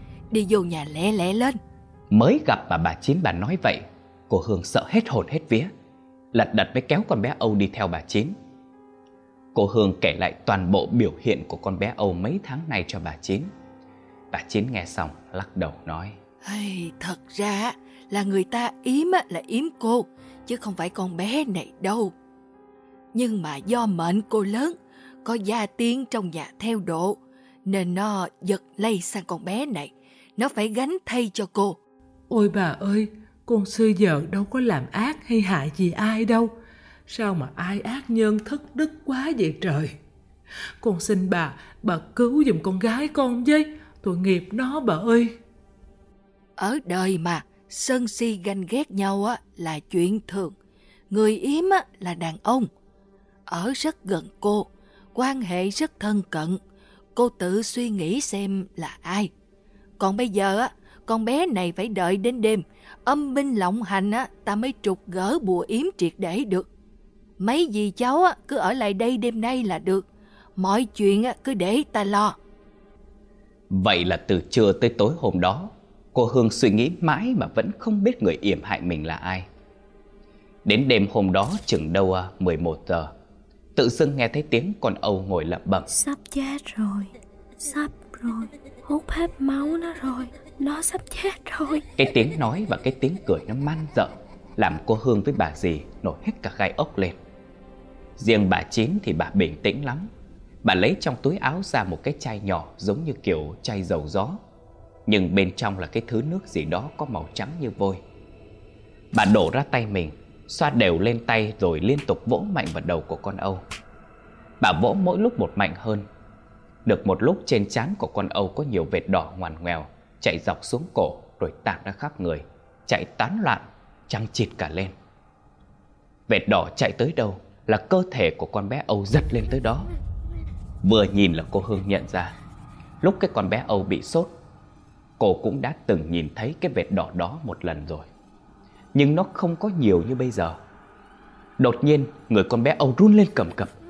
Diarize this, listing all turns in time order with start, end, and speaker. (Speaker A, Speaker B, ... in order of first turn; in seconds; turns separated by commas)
Speaker A: 0.3-1.6, Speaker B: 2.1-5.7, Speaker B: 6.3-8.3, Speaker B: 9.5-13.5, Speaker B: 14.3-16.2, Speaker A: 16.4-22.1, Speaker A: 23.1-31.8, Speaker C: 32.3-36.5, Speaker C: 37.1-39.9, Speaker C: 40.8-45.4, Speaker A: 46.6-50.5, Speaker A: 51.1-52.7, Speaker A: 53.5-56.6, Speaker A: 57.1-59.3, Speaker A: 60.0-66.7, Speaker A: 67.4-72.4, Speaker B: 73.7-79.5, Speaker B: 80.6-83.1, Speaker B: 83.8-85.9, Speaker D: 85.9-91.8, Speaker B: 92.0-97.2, Speaker B: 98.2-100.1, Speaker B: 100.6-104.4, Speaker B: 105.0-108.0, Speaker B: 109.1-113.6, Speaker B: 114.6-116.0, Speaker B: 116.8-124.9, Speaker B: 126.3-129.9, Speaker B: 130.8-132.3, Speaker B: 133.0-134.3, Speaker B: 135.2-138.1, Speaker B: 138.9-140.6, Speaker B: 141.6-143.7